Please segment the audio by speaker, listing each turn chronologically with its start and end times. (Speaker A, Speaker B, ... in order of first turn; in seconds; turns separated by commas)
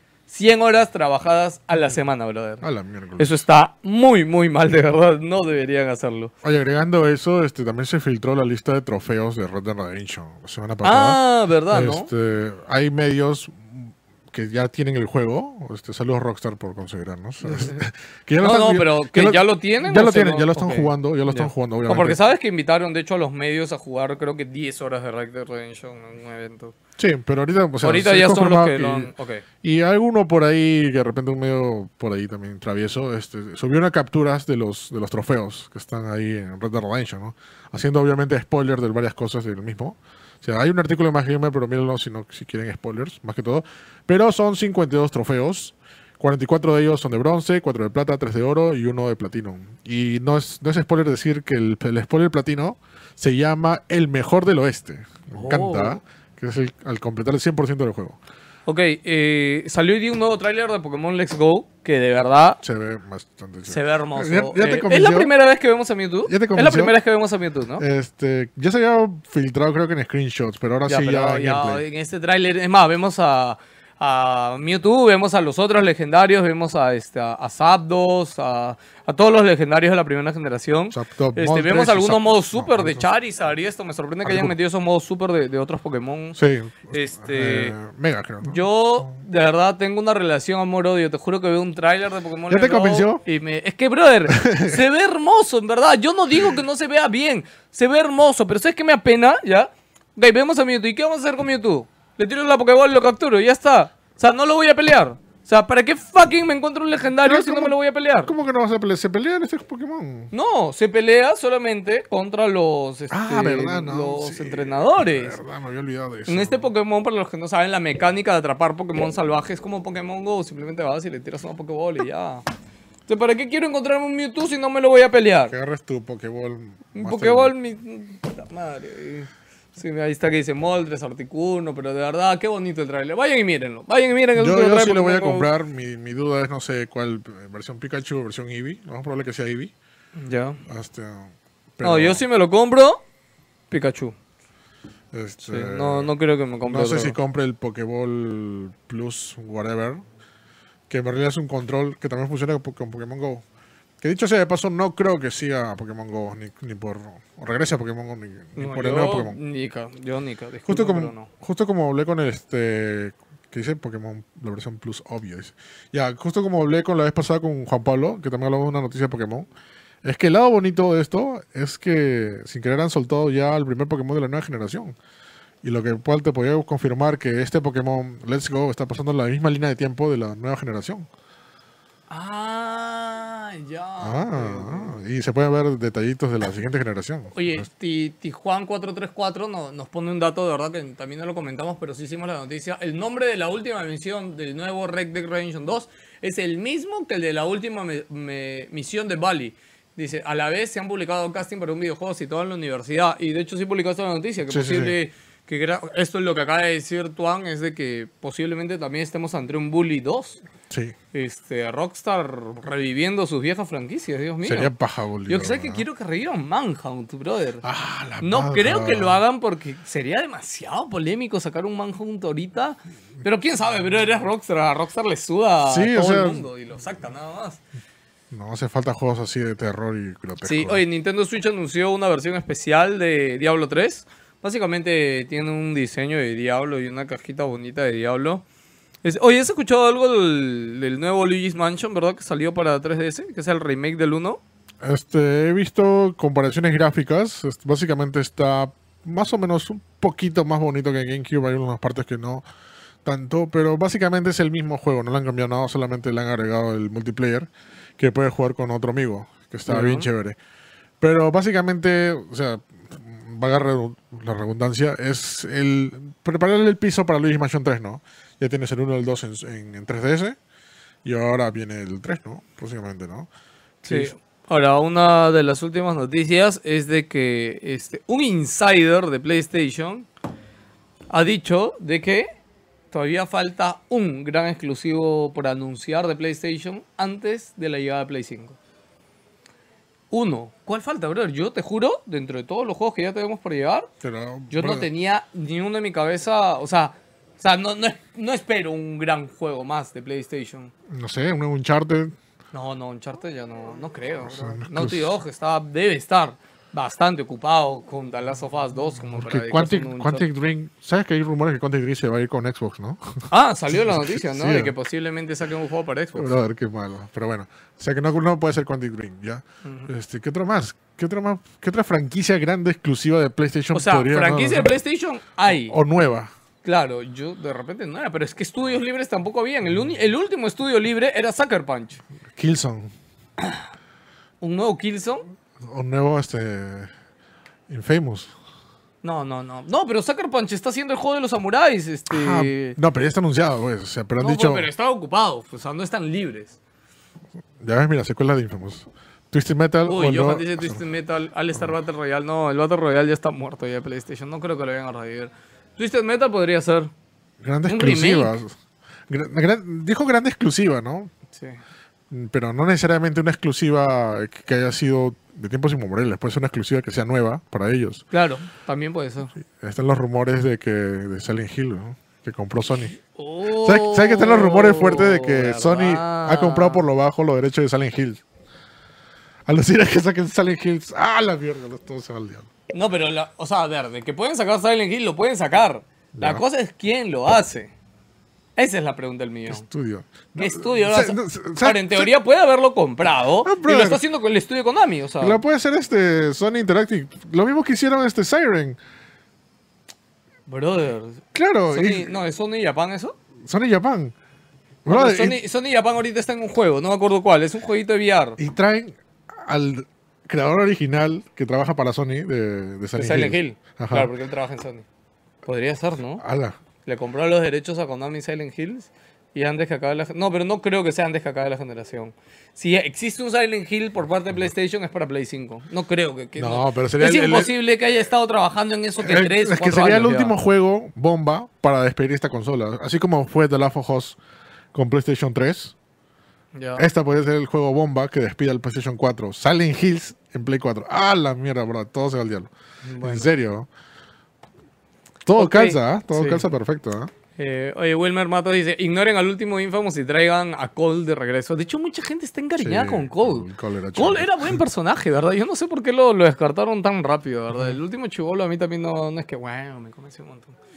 Speaker A: 0.3-2.6, Speaker B: 2.6-3.4, Speaker A: 3.2-6.3, Speaker B: 6.4-22.2, Speaker A: 10.8-12.1, Speaker A: 17.5-17.8, Speaker A: 18.4-26.8, Speaker B: 27.0-29.1, Speaker A: 27.8-29.4, Speaker B: 29.6-58.2, Speaker A: 55.3-56.0, Speaker A: 58.7-62.6, Speaker B: 62.6-65.3, Speaker A: 63.7-67.8, Speaker B: 66.3-66.9, Speaker B: 67.8-71.8, Speaker A: 70.9-86.4, Speaker B: 80.9-83.1, Speaker B: 84.2-84.5, Speaker B: 86.4-89.1, Speaker A: 86.9-87.8, Speaker A: 88.4-108.3, Speaker B: 92.5-93.2, Speaker B: 94.3-94.8, Speaker B: 107.2-110.3, Speaker A: 110.3-115.4, Speaker B: 113.1-116.7, Speaker A: 116.3-122.5, Speaker A: 123.1-125.5, Speaker B: 125.5-127.5, Speaker A: 126.9-135.5, Speaker B: 134.4-139.7, Speaker A: 140.2-140.6, Speaker B: 140.7-142.2, Speaker A: 141.8-143.0, Speaker A: 143.7-144.2, Speaker B: 145.1-146.1, Speaker A: 145.4-147.2, Speaker B: 146.7-150.0, Speaker B: 150.9-153.4, Speaker B: 154.0-159.4, Speaker A: 158.6-161.3, Speaker B: 160.7-169.5, Speaker B: 170.0-174.9, Speaker B: 175.6-181.1, Speaker A: 182.1-185.0, Speaker B: 184.0-187.6, Speaker A: 187.3-210.4, Speaker B: 204.5-204.9, Speaker B: 210.7-210.9, Speaker A: 211.1-214.7, Speaker B: 214.4-215.8, Speaker A: 215.3-217.6, Speaker B: 217.6-219.2, Speaker A: 218.2-227.6, Speaker B: 225.7-226.5, Speaker B: 228.3-230.8, Speaker A: 230.4-238.4, Speaker A: 239.0-244.4, Speaker B: 244.8-252.4, Speaker B: 253.0-260.4, Speaker A: 259.7-260.1, Speaker B: 261.0-270.4, Speaker B: 271.0-273.3, Speaker B: 273.8-274.1, Speaker A: 273.8-280.1, Speaker A: 281.1-282.3, Speaker A: 282.9-288.6, Speaker A: 290.1-293.9, Speaker B: 294.0-294.9, Speaker A: 294.5-300.7, Speaker B: 300.9-302.2, Speaker A: 302.5-310.2, Speaker B: 304.2-305.1, Speaker B: 309.2-314.7, Speaker A: 313.3-316.3, Speaker B: 316.1-324.8, Speaker A: 323.7-325.8, Speaker B: 325.5-326.3, Speaker A: 326.6-332.0, Speaker B: 332.3-332.9, Speaker A: 334.4-335.3, Speaker B: 335.7-336.9, Speaker B: 337.7-338.3, Speaker A: 339.0-342.8, Speaker B: 342.1-344.7, Speaker A: 344.2-346.6, Speaker B: 347.6-350.8, Speaker A: 349.9-356.9, Speaker B: 357.4-358.6, Speaker A: 357.7-358.4, Speaker B: 359.1-361.1, Speaker A: 361.4-361.6, Speaker B: 362.1-368.1, Speaker A: 368.1-369.3, Speaker B: 369.4-378.2, Speaker A: 373.1-376.8, Speaker B: 379.5-382.5, Speaker A: 382.7-387.7, Speaker B: 386.2-386.4, Speaker A: 388.6-389.6, Speaker B: 389.5-392.1, Speaker A: 390.4-395.4, Speaker B: 393.4-394.0, Speaker B: 395.2-398.8, Speaker A: 400.5-403.1, Speaker B: 401.3-402.1, Speaker B: 403.5-404.1, Speaker B: 404.9-405.4, Speaker A: 404.9-408.4, Speaker B: 408.4-414.1, Speaker A: 413.0-414.9, Speaker A: 415.4-416.2, Speaker B: 416.2-416.6, Speaker A: 416.9-430.4, Speaker B: 426.4-427.5, Speaker B: 429.0-434.2, Speaker B: 434.7-435.8, Speaker A: 436.6-436.9, Speaker B: 436.8-443.7, Speaker A: 442.8-443.3, Speaker B: 445.3-447.1, Speaker A: 445.4-446.4, Speaker A: 447.4-460.6, Speaker B: 452.6-454.6, Speaker B: 457.5-457.8